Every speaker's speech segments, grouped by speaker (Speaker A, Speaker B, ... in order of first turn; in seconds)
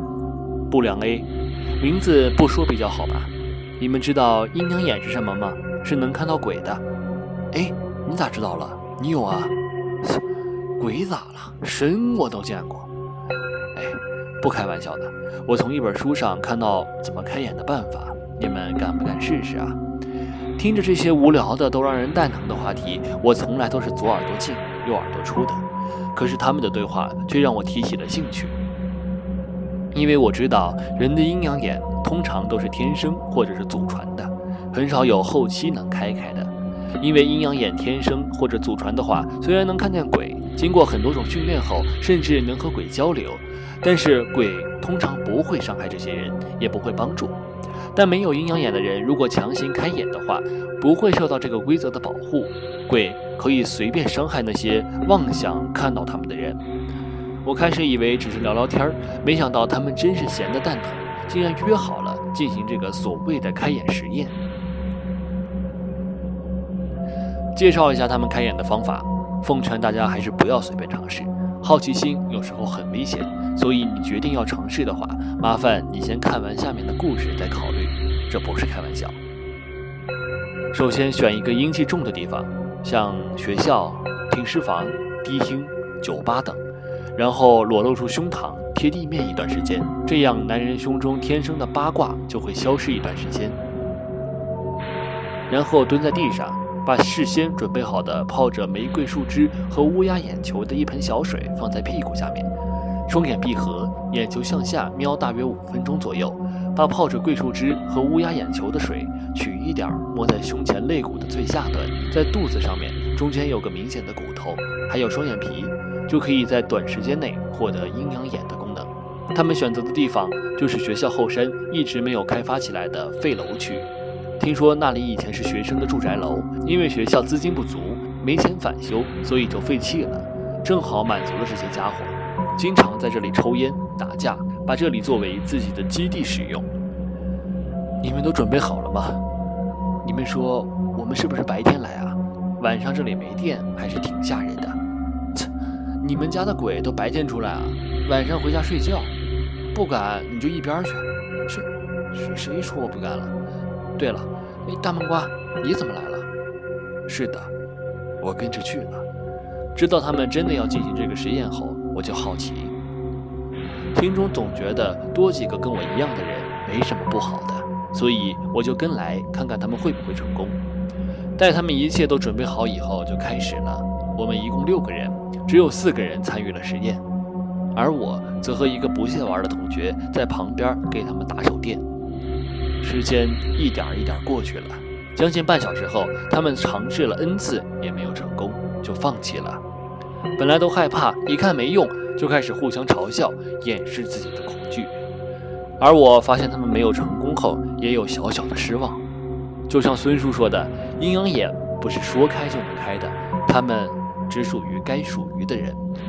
Speaker A: 0.7-6.8, 7.5-10.2, 10.8-12.9, 13.7-19.8, 20.6-28.6, 29.9-47.4, 47.9-56.6, 57.4-64.3, 67.5-79.2, 80.7-86.6, 87.1-93.6, 95.5-102.5, 103.1-136.7, 138.0-139.2, 140.0-144.8, 146.0-149.1, 149.7-153.3, 154.0-156.3, 157.1-157.5, 158.2-159.0, 159.7-162.8, 163.9-170.6, 171.3-177.0, 177.7-181.8, 182.8-189.6, 190.4-195.0, 195.8-199.0, 199.7-205.8